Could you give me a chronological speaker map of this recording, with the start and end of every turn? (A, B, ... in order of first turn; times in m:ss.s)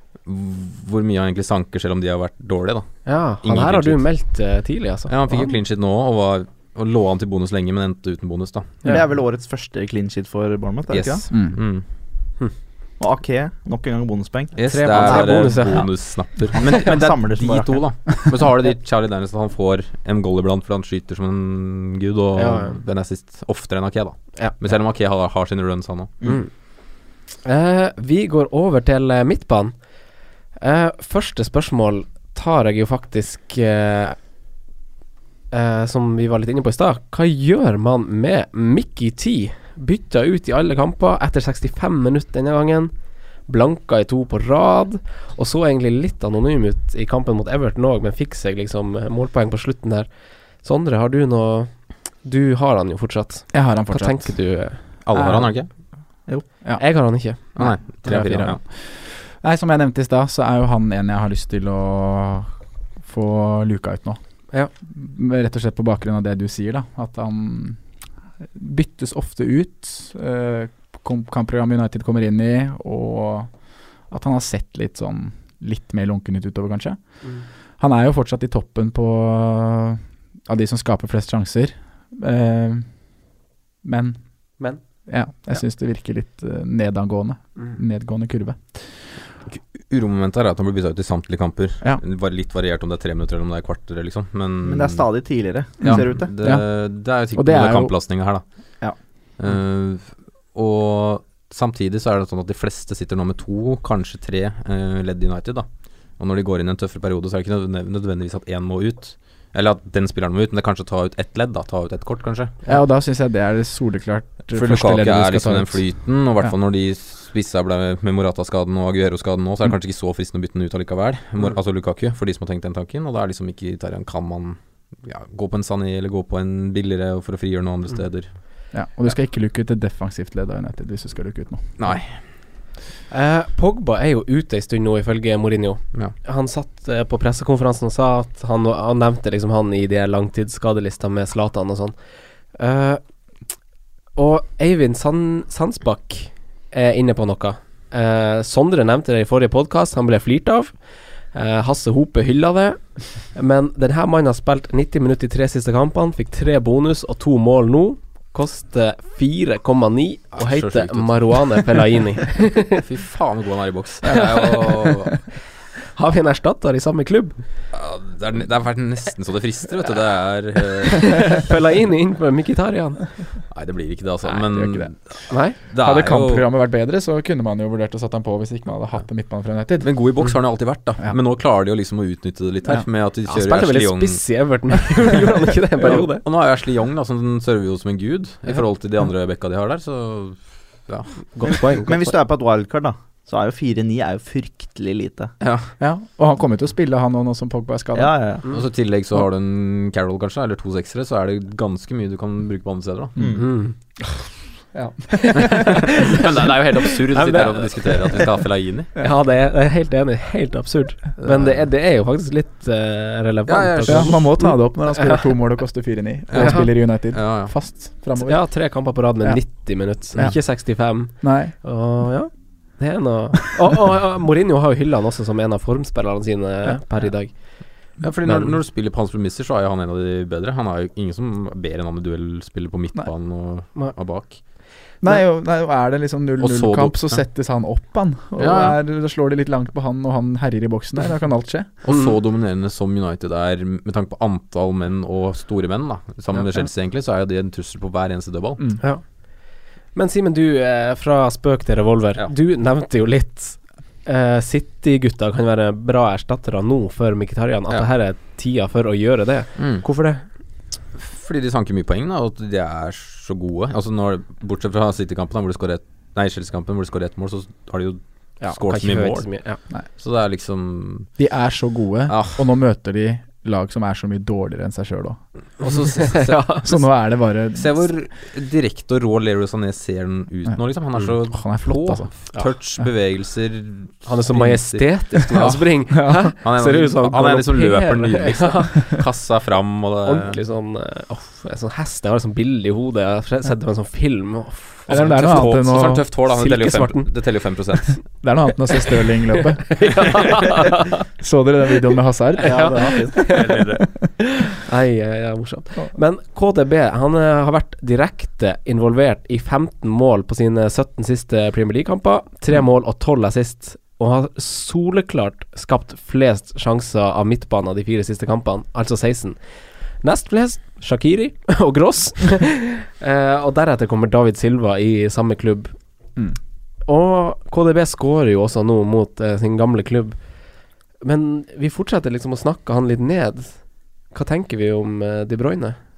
0:00.2-0:04.0 A
0:03.0-0:05.5 B
0:05.1-0:08.9 A
0:08.8-0:11.2 C
0:10.9-0:11.8 A
0:11.3-0:11.6 D
0:13.0-0:15.8 C
0:14.6-0:26.2 A
0:14.7-0:16.1 B
0:16.6-0:17.8 C
0:22.4-0:22.8 B
0:26.2-0:26.5 B
0:27.3-0:34.2 B
0:35.5-0:54.8 B
0:53.5-0:55.5 D
0:55.0-0:55.7 A
0:56.6-1:02.5 D
0:56.8-0:57.5 B
0:57.6-0:58.6 A
1:03.0-1:04.2 D
1:04.8-1:07.8 D
1:08.4-1:13.6 D
1:14.1-1:17.2 D
1:17.8-1:22.9 D
1:23.8-1:24.2 D
1:25.0-1:28.8 D
1:29.5-1:35.1 A
1:34.6-1:36.3 C
1:35.8-1:36.7 D
1:35.8-1:38.4 A
1:37.4-1:37.9 D
1:39.4-1:52.6 A
1:52.7-1:56.5 D
1:54.5-2:08.4 A
2:08.7-2:11.9 D
2:11.8-2:12.2 A
2:13.1-2:23.0 B
2:24.2-2:42.8 B
2:40.4-2:41.7 A
2:42.7-2:45.2 A
2:44.1-2:44.9 B
2:45.9-2:47.4 B
2:47.7-2:51.4 A
2:50.9-2:53.3 B
2:53.5-2:56.5 A
2:54.3-2:55.0 D
2:55.3-2:55.6 B
2:55.5-2:59.9 D
2:59.8-3:04.3 A
3:03.2-3:06.2 B
3:05.8-3:11.6 A
3:11.3-3:12.2 B
3:11.8-3:15.3 C
3:15.4-3:15.7 A
3:15.8-3:18.1 D
3:17.9-3:18.5 C
3:18.5-3:23.3 A
3:23.2-3:23.5 C
3:23.4-3:23.8 B
3:24.7-3:26.0 D
3:25.3-3:26.3 B
3:25.5-3:28.9 A
3:26.8-3:28.3 B
3:29.0-3:35.2 B
3:31.2-3:31.6 A
3:33.5-3:34.3 A
3:33.9-3:41.5 D
3:36.3-3:37.5 A
3:36.4-3:36.7 B
3:38.2-3:47.6 B
3:48.0-3:54.4 A
3:55.0-4:01.7 D
3:56.4-3:57.2 A
3:58.4-3:58.8 A
4:01.8-4:08.7 A
4:08.8-4:20.2 B
4:19.6-4:19.8 A
4:21.0-4:29.4 A
4:28.4-4:29.6 B
4:30.0-4:31.1 A
4:31.2-4:35.2 D
4:32.1-4:32.5 A
4:35.6-4:36.8 A
4:35.6-4:36.7 B
4:36.6-4:37.8 D
4:37.5-4:45.6 A
4:41.2-4:42.1 D
4:44.0-4:49.0 B
4:45.4-4:46.3 D
4:46.4-4:50.4 A
4:50.0-4:55.5 B
4:54.9-4:56.1 D
4:54.9-4:58.0 A
4:56.2-4:57.1 B
4:58.2-5:00.3 D
4:59.5-5:01.1 B
5:01.0-5:03.0 D
5:02.4-5:19.4 B
5:02.4-5:03.4 C
5:03.3-5:03.8 A
5:20.0-5:25.7 B
5:26.9-5:30.3 B
5:31.0-5:35.8 B